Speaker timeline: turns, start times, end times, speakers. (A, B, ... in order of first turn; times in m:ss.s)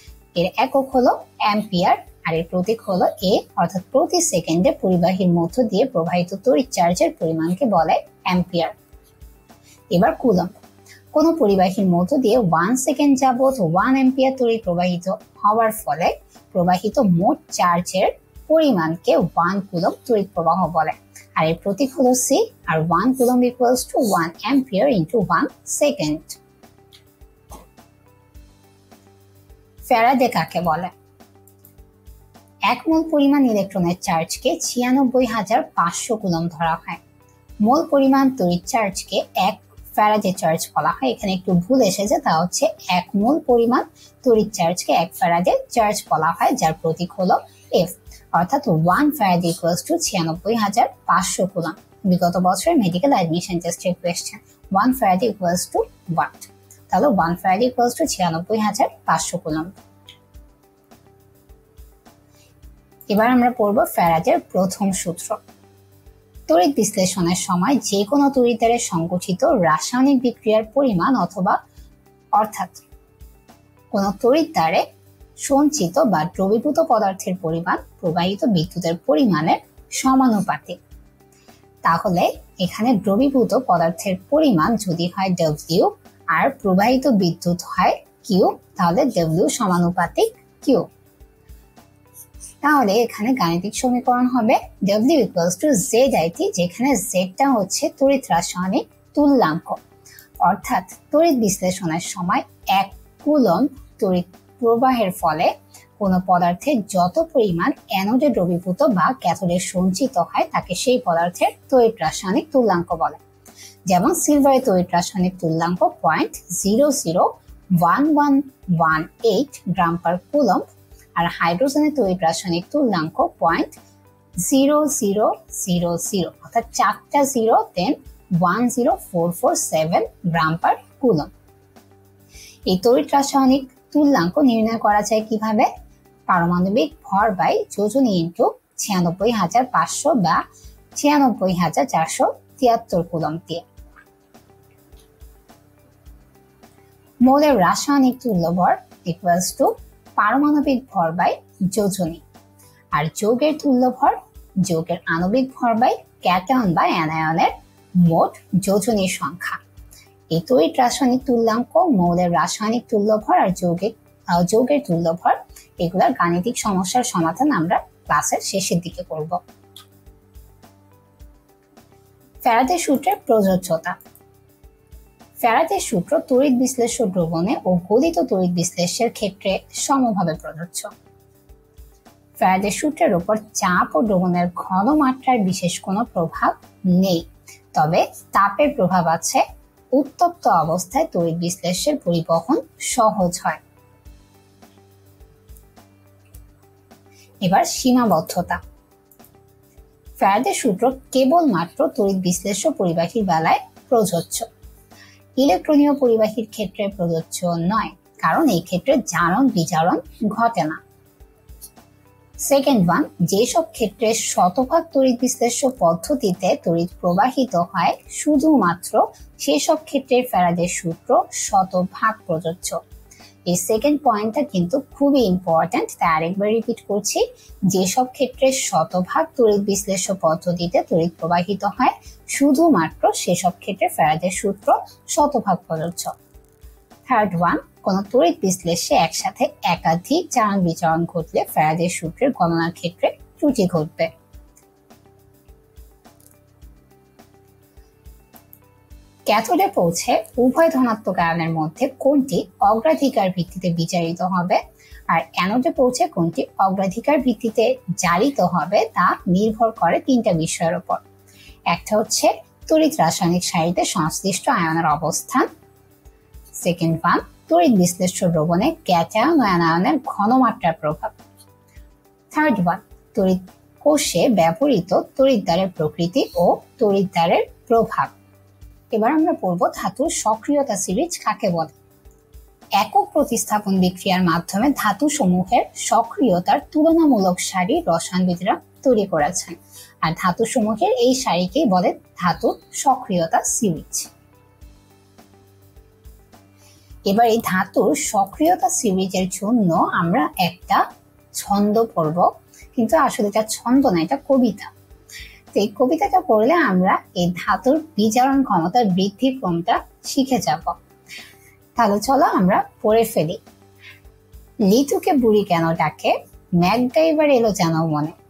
0:00.4-0:08.8 A
0:09.9-0:10.6 A
0:11.1-0:26.4 A
0:29.8-0:30.9 A
0:32.7-0:37.0 A
0:37.6-0:59.7 A
1:03.1-1:05.4 A
1:06.5-1:11.6 A
1:12.4-1:12.8 A
1:13.9-1:14.8 A
1:15.4-1:20.8 A
1:21.8-1:30.9 A
1:32.6-1:39.8 A
1:40.4-1:53.2 A
1:53.9-2:03.8 A
2:04.4-2:11.3 A
2:12.7-2:15.7 A
2:16.3-2:20.4 A
2:21.0-2:23.7 A
2:27.2-2:32.2 A
2:32.9-2:39.6 A
2:40.3-2:49.4 A
2:52.4-2:54.0 A
2:55.4-3:00.9 A
3:02.4-3:13.6 A
3:17.4-3:18.6 A
3:20.2-3:24.5 A
3:25.4-3:30.8 A
3:32.4-3:42.8 A
3:43.5-3:56.1 A
3:57.1-4:04.1 A
4:09.3-4:21.0 A
4:21.7-4:25.5 A
4:26.6-4:31.2 A
4:32.3-4:38.1 A
4:38.9-4:41.8 A
4:42.8-4:54.1 A
4:57.1-5:00.8 A
5:01.4-5:04.7 A
5:05.5-5:10.8 A
5:11.8-5:13.4 A
5:14.7-5:18.2 A